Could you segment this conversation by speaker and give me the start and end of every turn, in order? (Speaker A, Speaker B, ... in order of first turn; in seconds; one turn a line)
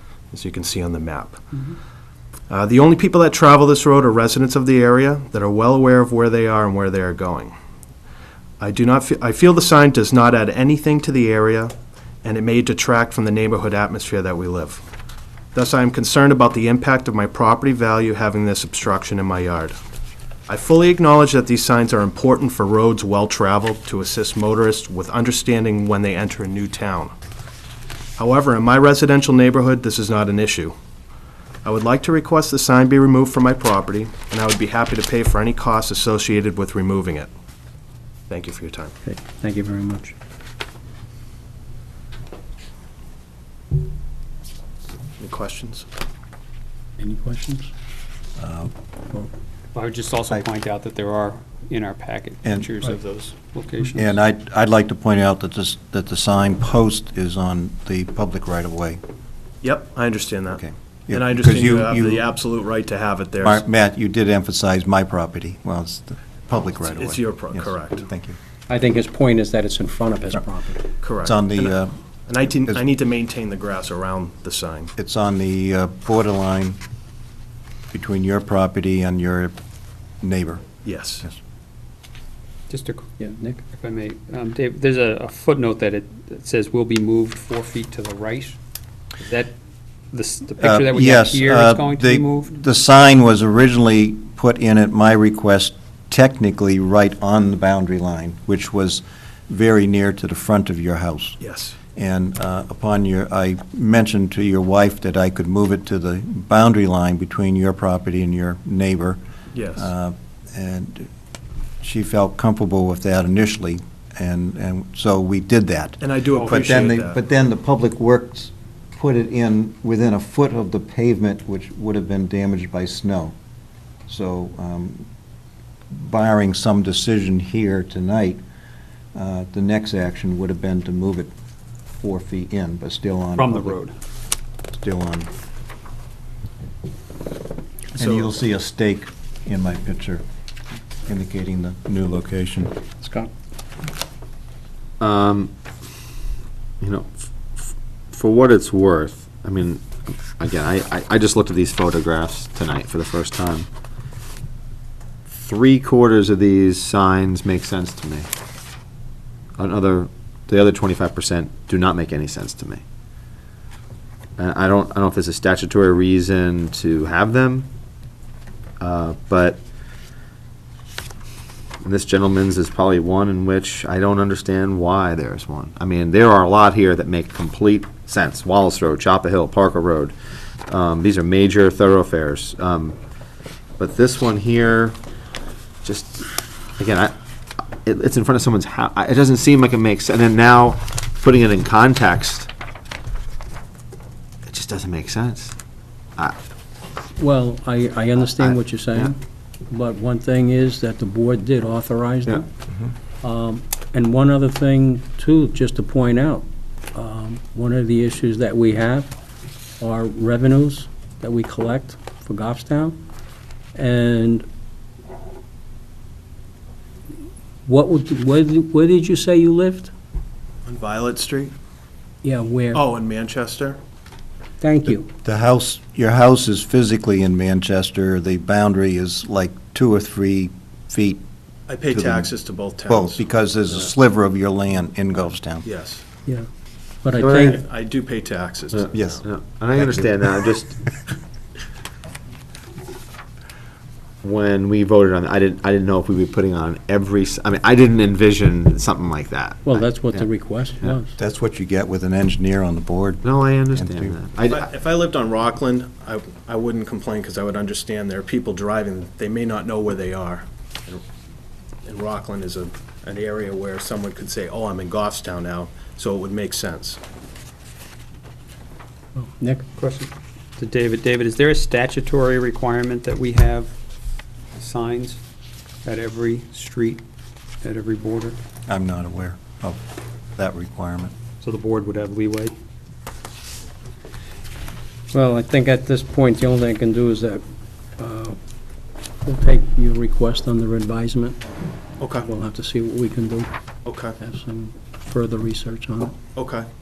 Speaker A: 0.3-1.4
Speaker A: 2.5-7.5
Speaker A: 8.6-11.7
Speaker A: 12.2-14.8
Speaker A: 15.5-19.8
Speaker A: 20.5-27.1
Speaker A: 28.2-30.7
Speaker A: 31.6-37.3
Speaker A: 38.3-38.9
Speaker B: 39.0-40.1
Speaker A: 45.2-45.9
Speaker B: 47.0-47.7
Speaker C: 48.4-48.7
Speaker D: 49.7-54.2
Speaker C: 52.4-52.7
Speaker C: 53.9-59.0
Speaker A: 59.6-63.6
Speaker C: 60.6-62.2
Speaker C: 63.4-68.4
Speaker A: 66.8-68.0
Speaker B: 68.7-70.8
Speaker A: 71.0-71.8
Speaker C: 71.2-71.9
Speaker A: 72.3-74.9
Speaker C: 75.0-76.8
Speaker C: 77.9-79.5
Speaker C: 80.2-80.7
Speaker A: 80.8-81.2
Speaker D: 82.7-83.1
Speaker B: 83.2-83.6
Speaker D: 83.6-88.6
Speaker D: 89.2-89.5
Speaker D: 90.1-92.5
Speaker C: 90.6-101.4
Speaker A: 101.4-101.8
Speaker C: 102.0-109.2
Speaker A: 109.5-109.9
Speaker C: 109.8-111.1
Speaker C: 111.8-123.3
Speaker A: 116.0-117.2
Speaker C: 124.1-125.0
Speaker C: 125.9-128.4
Speaker C: 129.1-131.3
Speaker C: 132.0-133.8
Speaker D: 133.3-133.9
Speaker C: 134.7-135.3
Speaker C: 137.9-140.2
Speaker A: 138.0-138.3
Speaker C: 141.1-142.8
Speaker B: 143.0-143.3
Speaker E: 145.0-145.5
Speaker E: 146.8-153.7
Speaker E: 155.2-158.3
Speaker E: 159.6-162.8
Speaker E: 164.4-167.7
Speaker E: 168.8-169.6
Speaker E: 171.8-180.1
Speaker E: 180.7-183.0
Speaker E: 183.8-185.0
Speaker E: 185.8-192.5
Speaker E: 194.4-195.6
Speaker B: 197.2-199.2
Speaker E: 198.3-199.1
Speaker B: 199.7-202.5
Speaker B: 203.2-209.1
Speaker B: 209.8-213.0
Speaker B: 213.7-214.4
Speaker B: 217.7-219.9
Speaker A: 220.7-221.5
Speaker B: 222.2-222.8
Speaker A: 222.7-223.8
Speaker B: 224.6-225.1
Speaker C: 224.9-231.2
Speaker A: 231.7-233.9
Speaker C: 231.9-232.3
Speaker C: 232.9-235.7
Speaker A: 235.6-236.0
Speaker B: 237.0-237.6
Speaker E: 237.2-237.6
Speaker A: 237.3-239.2
Speaker E: 238.7-240.8
Speaker C: 238.9-239.2
Speaker C: 239.8-240.0
Speaker E: 244.2-251.0
Speaker B: 249.6-251.2
Speaker C: 251.2-254.2
Speaker E: 253.2-254.7
Speaker A: 254.4-261.0
Speaker A: 261.8-267.0
Speaker B: 269.1-269.6
Speaker D: 269.7-273.7
Speaker D: 274.6-275.2
Speaker D: 275.8-277.0
Speaker D: 277.6-278.4
Speaker C: 278.7-279.8
Speaker C: 280.4-281.1
Speaker D: 281.4-282.6
Speaker B: 285.1-287.4
Speaker B: 288.0-288.4
Speaker B: 289.2-291.4
Speaker A: 292.0-292.3
Speaker B: 292.2-293.5
Speaker A: 293.8-294.2
Speaker B: 294.2-296.2
Speaker A: 296.4-296.7